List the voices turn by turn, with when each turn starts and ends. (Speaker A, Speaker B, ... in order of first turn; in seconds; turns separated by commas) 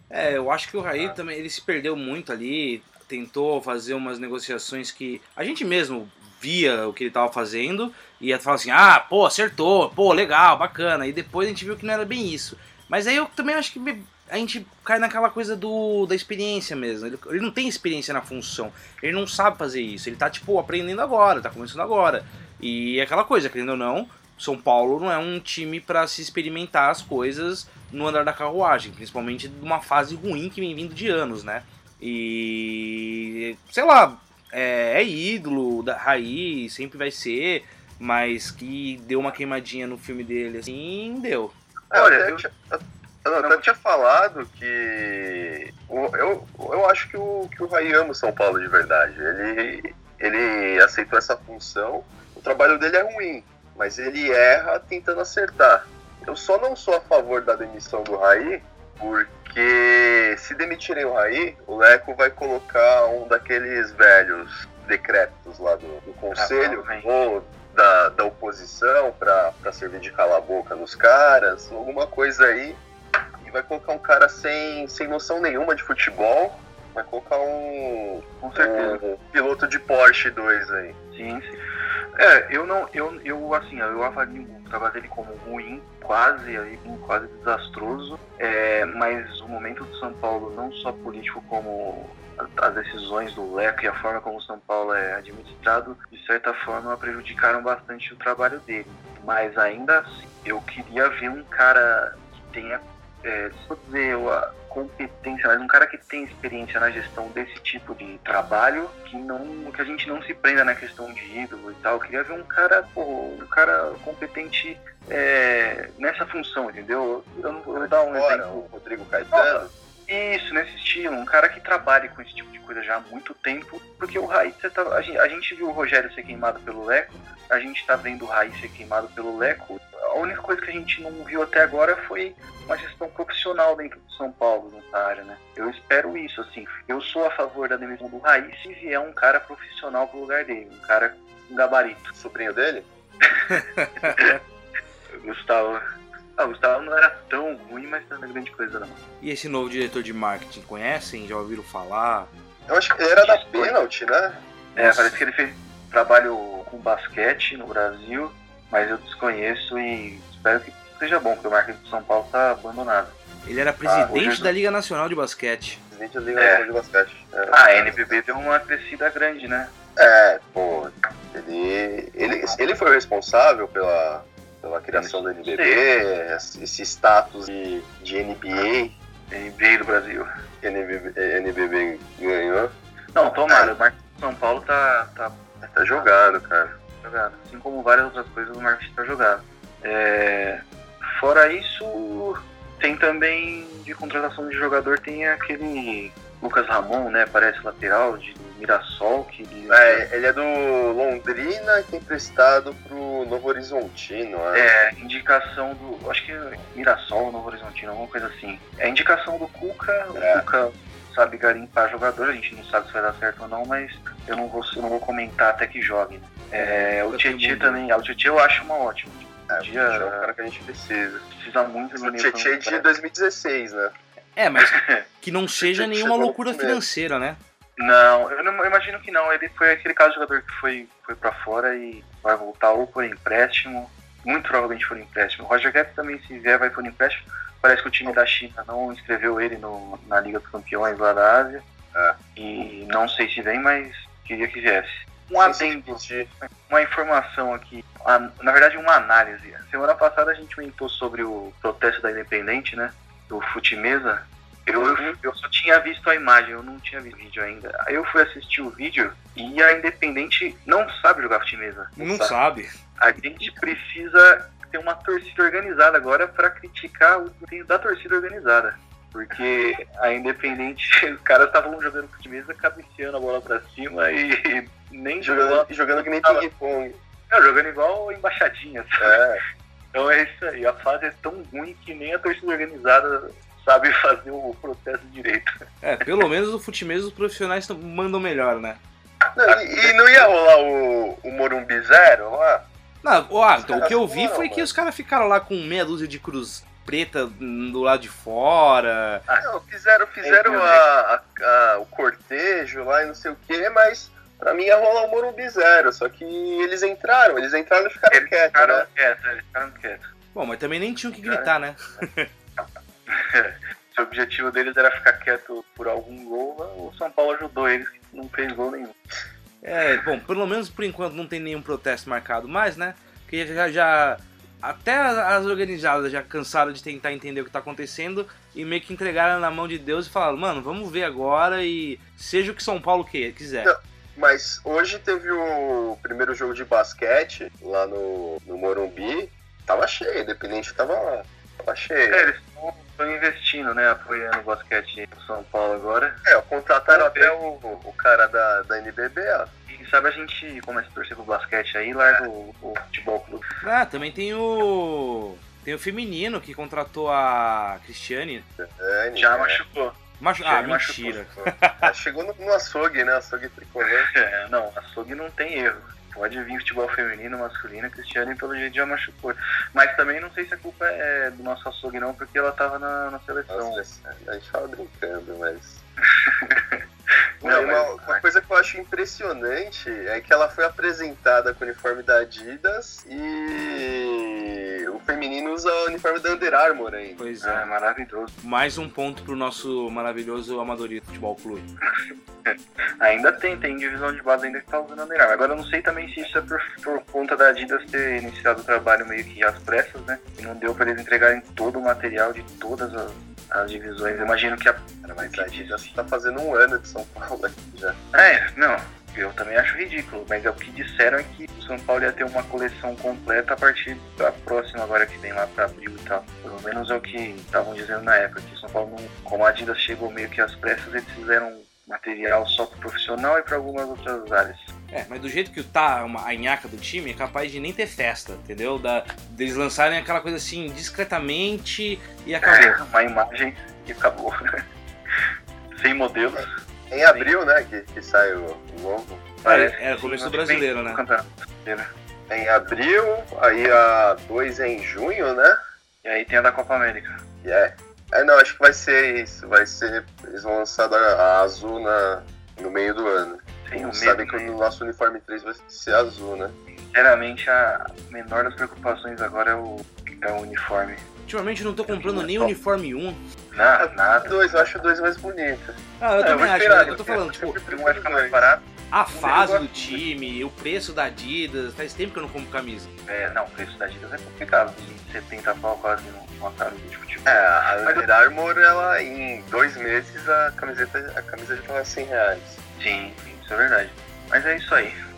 Speaker A: 0.1-41.5, Speaker B: 41.9-42.4, Speaker C: 41.9-72.8, Speaker B: 43.4-43.6, Speaker B: 66.3-67.1, Speaker C: 73.4-81.0, Speaker B: 78.4-79.0, Speaker B: 81.1-81.6, Speaker B: 82.2-118.7, Speaker C: 117.7-119.7, Speaker B: 119.3-142.1, Speaker C: 142.1-142.9, Speaker A: 143.5-144.4, Speaker B: 145.1-145.8, Speaker B: 146.4-149.0, Speaker A: 149.2-152.3, Speaker C: 152.7-154.4, Speaker B: 153.2-153.8, Speaker B: 154.7-163.1, Speaker A: 154.8-155.2, Speaker A: 163.4-165.8, Speaker B: 164.0-164.5, Speaker C: 165.9-168.3, Speaker B: 166.3-166.7, Speaker B: 167.5-169.7, Speaker C: 170.0-178.9, Speaker B: 174.9-175.8, Speaker B: 179.3-180.3, Speaker C: 180.6-182.7, Speaker B: 183.1-185.4, Speaker C: 183.5-183.7, Speaker C: 185.6-186.7, Speaker B: 187.0-200.1, Speaker C: 199.7-204.7, Speaker B: 204.5-220.3, Speaker C: 210.1-210.4, Speaker A: 216.5-217.8, Speaker C: 219.5-221.2, Speaker B: 221.3-222.9, Speaker C: 221.9-223.9, Speaker A: 224.3-227.4, Speaker B: 224.6-225.0, Speaker C: 225.6-226.8, Speaker B: 227.8-241.6, Speaker B: 242.3-262.3, Speaker C: 245.4-246.3, Speaker C: 254.8-255.2, Speaker A: 262.0-262.7, Speaker B: 263.0-276.5, Speaker C: 275.2-277.0, Speaker B: 277.3-279.2, Speaker C: 279.0-279.4, Speaker B: 279.9-285.5, Speaker A: 285.8-288.8, Speaker C: 289.4-292.7, Speaker B: 289.5-290.3, Speaker A: 293.0-299.2, Speaker C: 293.6-294.7, Speaker C: 299.4-308.9, Speaker B: 300.2-300.8, Speaker B: 308.1-310.1, Speaker A: 310.3-312.3, Speaker C: 311.2-311.5, Speaker B: 313.1-319.0, Speaker A: 319.6-333.7, Speaker C: 333.6-342.3, Speaker B: 342.1-346.2, Speaker C: 346.2-349.5, Speaker B: 346.9-347.4, Speaker B: 349.7-353.4, Speaker A: 353.6-358.5, Speaker C: 358.6-359.6, Speaker B: 359.2-361.2, Speaker A: 360.2-361.9, Speaker C: 361.8-364.1, Speaker B: 364.1-373.8, Speaker C: 373.5-375.8, Speaker B: 376.2-376.8, Speaker B: 377.4-378.2, Speaker C: 377.4-387.2, Speaker A: 387.2-387.7, Speaker B: 387.4-388.3, Speaker A: 388.4-391.7, Speaker B: 392.4-405.9, Speaker C: 405.0-408.0, Speaker B: 408.1-424.7, Speaker A: 424.9-432.8, Speaker B: 432.4-434.3, Speaker B: 435.2-437.3, Speaker C: 436.3-439.3, Speaker B: 439.4-441.9, Speaker A: 439.4-441.0, Speaker C: 442.3-445.6, Speaker B: 446.0-447.2, Speaker C: 447.4-456.5, Speaker B: 453.6-454.5, Speaker B: 456.7-461.0, Speaker A: 461.3-463.2, Speaker B: 461.9-462.5, Speaker B: 463.5-464.8, Speaker C: 463.6-468.5, Speaker A: 466.0-467.5, Speaker B: 466.2-470.0, Speaker A: 468.9-472.9, Speaker B: 473.1-478.1, Speaker C: 477.2-482.6, Speaker B: 482.8-484.9